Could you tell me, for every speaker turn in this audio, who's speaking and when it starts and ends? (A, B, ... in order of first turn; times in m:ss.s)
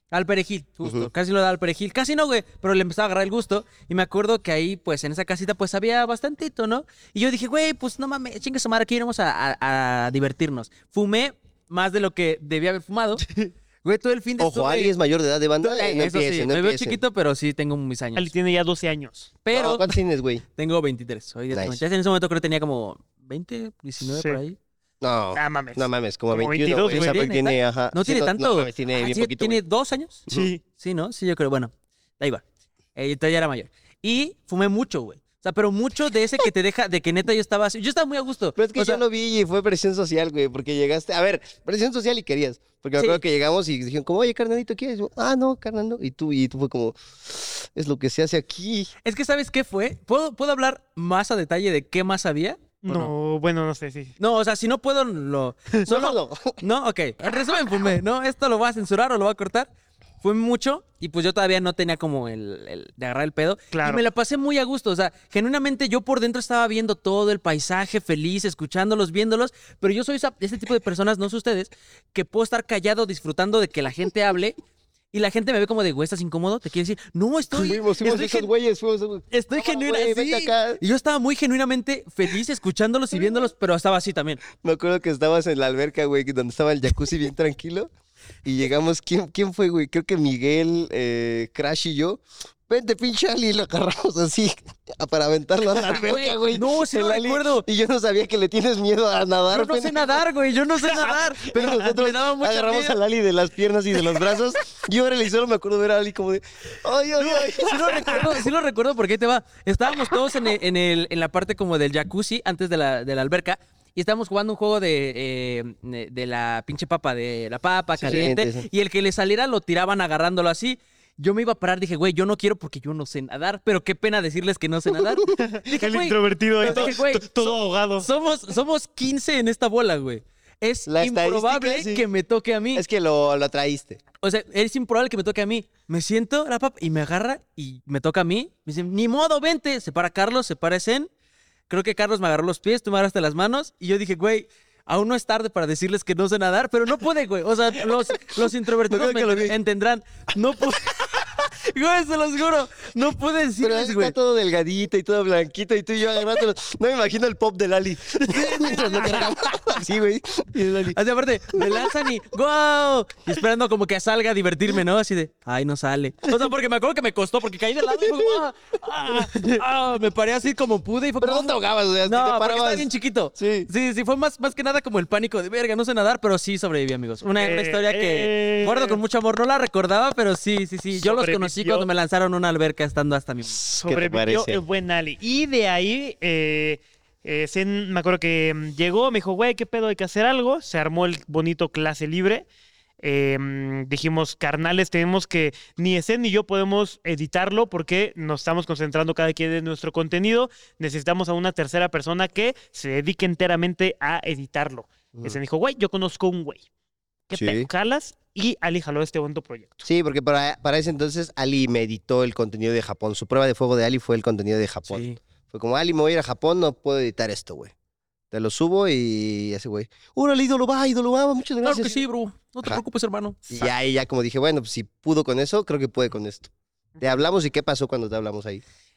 0:00.1-0:13.2 A
0:00.8-0:01.1 B
0:13.8-0:14.9 A
0:14.4-0:17.0 B
0:15.6-0:18.3 A
0:18.2-0:19.3 C
0:19.4-0:20.0 A
0:19.5-0:20.4 B
0:20.6-0:24.6 A
0:21.5-0:21.8 B
0:24.1-0:24.4 C
0:25.0-0:29.6 B
0:25.4-0:27.3 C
0:26.9-0:32.4 A
0:30.3-0:30.6 C
0:33.0-0:39.0 A
0:38.6-0:48.9 B
0:49.0-0:53.1 A
0:52.8-0:54.1 C
0:54.2-0:59.7 A
0:55.9-0:56.6 B
1:00.2-1:14.6 A
1:03.7-1:04.0 C
1:15.1-1:18.5 A
1:17.5-1:20.8 B
1:19.3-1:24.4 A
1:24.5-1:27.9 B
1:28.4-1:40.1 B
1:35.9-1:37.7 A
1:39.5-1:43.0 A
1:41.4-1:48.4 B
1:47.2-2:12.8 A
1:58.0-1:58.7 B
2:05.4-2:08.1 C
2:06.6-2:06.9 B
2:10.9-2:12.0 B
2:12.8-2:14.0 B
2:14.2-2:21.1 A
2:21.7-2:34.2 A
2:28.4-2:29.6 B
2:33.6-2:41.0 B
2:38.2-2:39.8 A
2:40.9-3:03.6 A
2:41.5-2:41.9 B
2:48.0-2:48.4 B
2:51.2-2:53.7 B
2:57.4-2:59.0 C
3:01.0-3:01.9 C
3:03.7-3:12.5 C
3:03.8-3:04.6 B
3:13.0-3:26.6 C
3:27.3-3:29.8 C
3:27.3-3:27.7 B
3:29.8-3:37.7 B
3:34.9-3:35.2 A
3:38.3-3:42.0 B
3:41.6-3:43.7 A
3:43.5-3:48.6 B